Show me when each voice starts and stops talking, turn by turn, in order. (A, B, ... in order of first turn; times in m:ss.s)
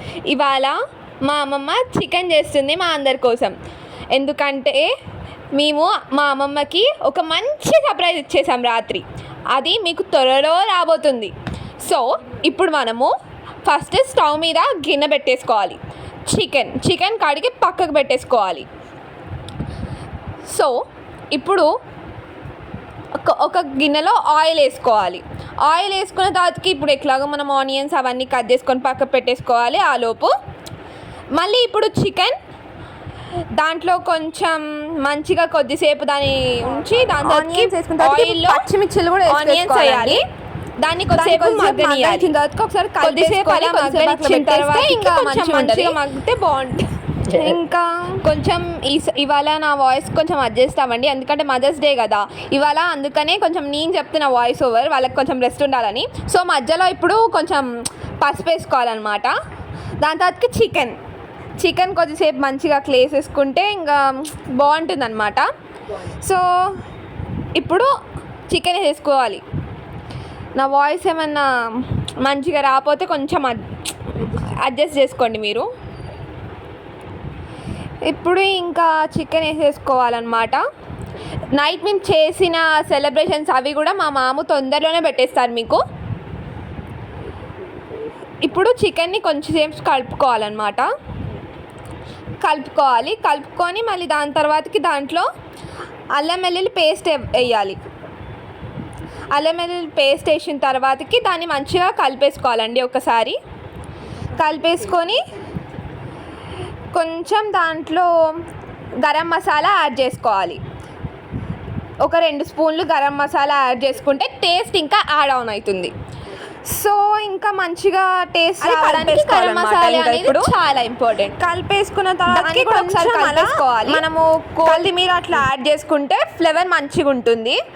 0:00.3-0:03.6 A
0:04.1-0:04.9 A
0:05.6-0:13.1 A
0:13.7-0:15.8 A
0:16.3-0:18.7 A
0:21.3-0:21.7 A
0:23.2-0:30.3 A
0:31.4-0:32.4 A
0:33.6-0:38.7 A
0:36.7-0:40.2 B
0:39.3-0:40.2 A
0:40.8-0:57.7 A
0:41.0-0:46.4 B
0:47.3-0:47.7 B
0:58.2-0:59.3 A
1:00.0-1:01.0 A
1:01.6-1:05.5 A
1:06.2-1:06.4 A
1:07.6-1:07.9 A
1:08.5-1:09.4 A
1:10.6-1:11.5 A
1:12.2-1:15.7 A
1:18.0-1:20.6 A
1:21.5-1:25.8 A
1:28.4-1:30.9 A
1:32.4-1:35.3 A
1:36.1-1:37.8 A
1:39.3-1:43.4 A
1:44.4-1:45.2 A
1:46.9-1:48.1 A
1:49.0-1:50.6 A
1:52.0-1:55.9 A
1:56.7-1:57.8 A
1:57.6-2:00.5 B
1:58.6-2:01.4 A
2:01.4-2:05.4 B
2:02.3-2:04.0 A
2:04.6-2:07.6 A